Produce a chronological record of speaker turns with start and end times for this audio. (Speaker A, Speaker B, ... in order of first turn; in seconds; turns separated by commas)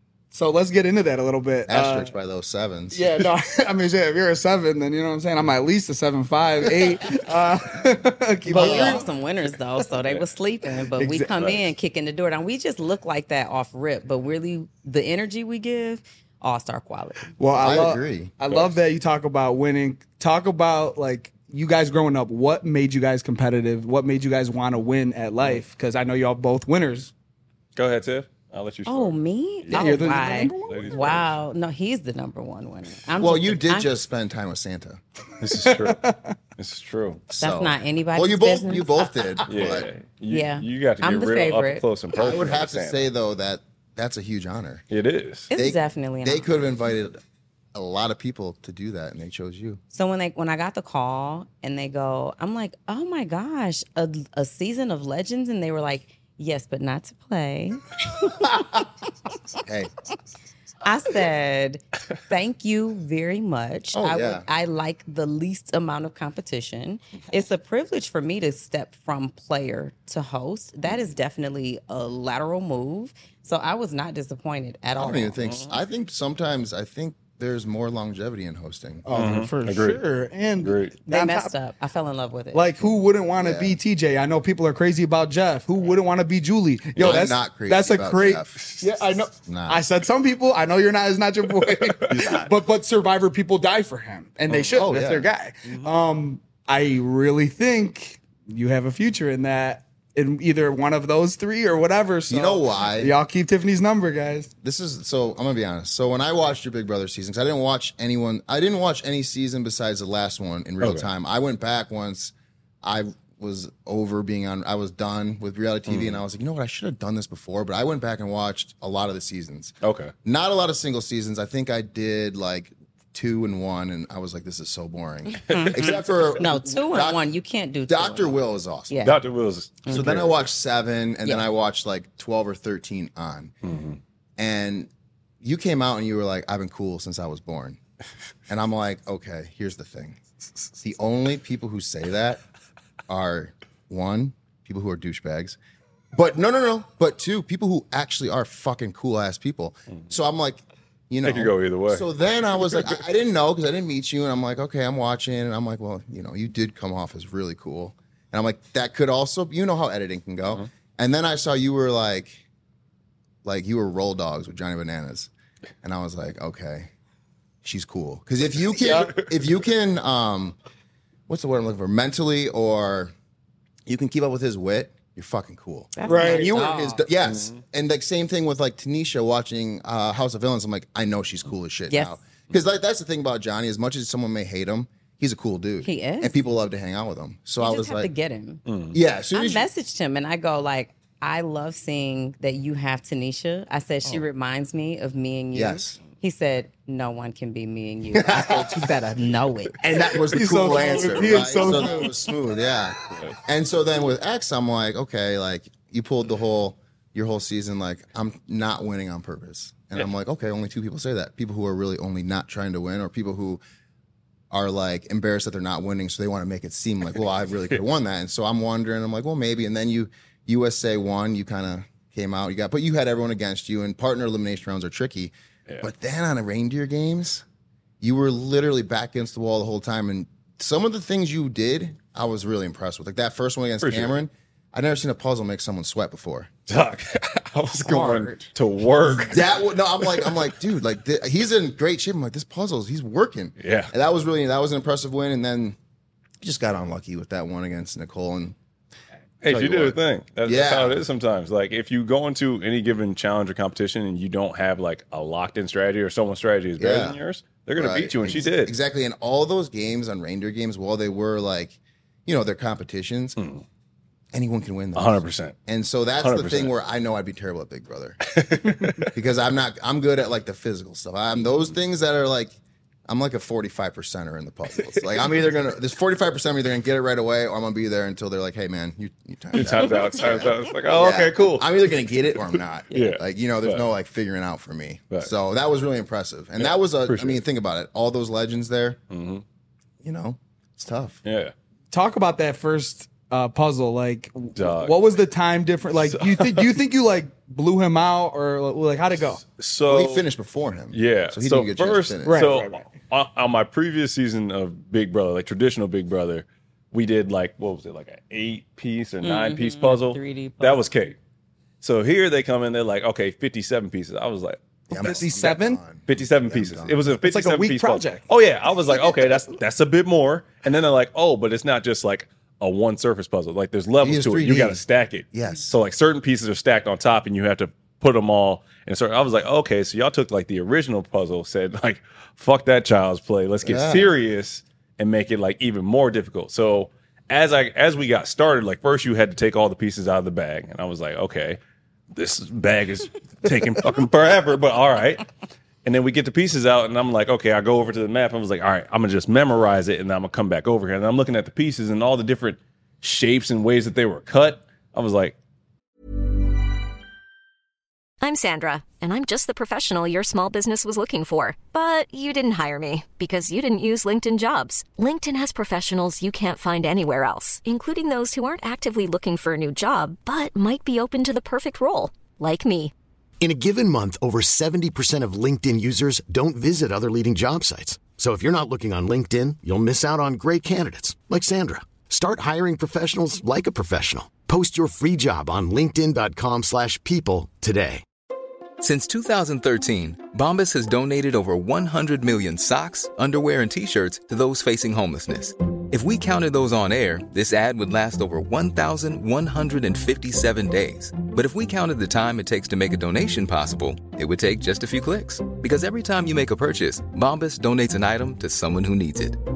Speaker A: 0.3-2.1, Speaker B: 1.7-3.2, Speaker A: 2.9-9.1, Speaker C: 8.5-17.7, Speaker B: 8.6-9.0, Speaker A: 11.0-11.5, Speaker A: 17.4-27.1, Speaker B: 17.6-18.3, Speaker D: 18.5-18.7, Speaker D: 27.8-31.3, Speaker C: 28.9-33.9, Speaker A: 29.7-30.8, Speaker B: 33.2-35.0, Speaker D: 35.4-36.0, Speaker A: 35.6-36.4, Speaker D: 36.6-37.2, Speaker B: 37.3-39.9, Speaker C: 37.4-39.2, Speaker D: 39.5-43.1, Speaker C: 40.3-41.9, Speaker B: 42.1-44.8, Speaker D: 44.9-45.5, Speaker C: 45.5-46.7, Speaker B: 45.5-47.2, Speaker B: 47.7-49.8, Speaker C: 49.9-57.8, Speaker B: 59.6-59.9, Speaker C: 60.8-75.4, Speaker B: 63.9-64.4, Speaker B: 75.0-79.1, Speaker D: 75.4-75.8, Speaker A: 79.1-81.5, Speaker D: 79.1-80.0, Speaker D: 80.6-80.9, Speaker C: 81.1-82.7, Speaker A: 82.5-104.5, Speaker B: 83.4-83.8, Speaker B: 87.0-88.8, Speaker B: 89.4-89.8, Speaker D: 91.9-92.5, Speaker B: 94.6-95.3, Speaker B: 102.3-103.2, Speaker B: 104.6-127.2, Speaker D: 110.8-111.1, Speaker D: 115.9-116.2, Speaker D: 119.8-120.1, Speaker C: 125.3-129.2, Speaker D: 125.5-125.9, Speaker B: 127.9-129.1, Speaker D: 129.0-130.4, Speaker C: 129.8-130.1, Speaker B: 129.9-133.5, Speaker D: 133.6-134.0, Speaker B: 134.4-134.9, Speaker B: 135.4-137.8, Speaker B: 138.5-140.2, Speaker B: 140.8-142.4, Speaker B: 143.1-145.6, Speaker B: 146.1-162.4, Speaker D: 151.2-152.1, Speaker B: 163.4-165.3, Speaker B: 165.8-166.9, Speaker B: 167.6-170.6, Speaker B: 171.3-173.1, Speaker B: 173.9-188.1, Speaker C: 176.0-177.0, Speaker A: 176.1-176.5, Speaker D: 177.2-177.6, Speaker C: 181.9-182.2, Speaker C: 185.8-186.4, Speaker C: 187.6-188.6, Speaker D: 188.7-189.0, Speaker B: 188.9-189.7, Speaker C: 189.3-199.8, Speaker B: 195.5-196.0, Speaker B: 198.1-198.9, Speaker B: 199.8-213.6, Speaker A: 200.3-202.2, Speaker B: 214.5-227.4, Speaker B: 228.0-236.5, Speaker D: 233.8-234.2, Speaker D: 236.7-240.5, Speaker B: 239.3-245.8, Speaker D: 243.6-243.9, Speaker B: 246.4-248.6, Speaker D: 249.4-258.7, Speaker B: 249.4-251.0, Speaker B: 256.8-257.2, Speaker B: 257.8-263.4, Speaker D: 263.4-263.6, Speaker B: 264.3-268.3, Speaker D: 264.9-265.6, Speaker D: 266.2-266.7, Speaker D: 268.3-269.1, Speaker B: 269.1-272.6, Speaker B: 273.1-289.0, Speaker D: 279.5-281.8, Speaker D: 282.9-283.9, Speaker D: 286.6-287.4, Speaker D: 289.1-289.4, Speaker B: 290.0-291.2, Speaker D: 291.2-291.5, Speaker A: 291.9-299.4, Speaker D: 294.6-295.0, Speaker D: 295.9-296.8, Speaker D: 299.4-300.3, Speaker B: 299.8-302.6, Speaker D: 300.9-311.2, Speaker A: 302.2-302.9, Speaker C: 309.2-310.9, Speaker D: 311.8-315.2, Speaker B: 314.9-317.1, Speaker A: 314.9-315.8, Speaker D: 316.1-341.6, Speaker A: 317.2-318.3, Speaker B: 324.0-325.8, Speaker B: 333.6-334.1, Speaker D: 342.1-345.3, Speaker D: 345.8-355.3, Speaker E: 358.2-372.9, Speaker F: 373.4-388.0, Speaker G: 388.8-409.4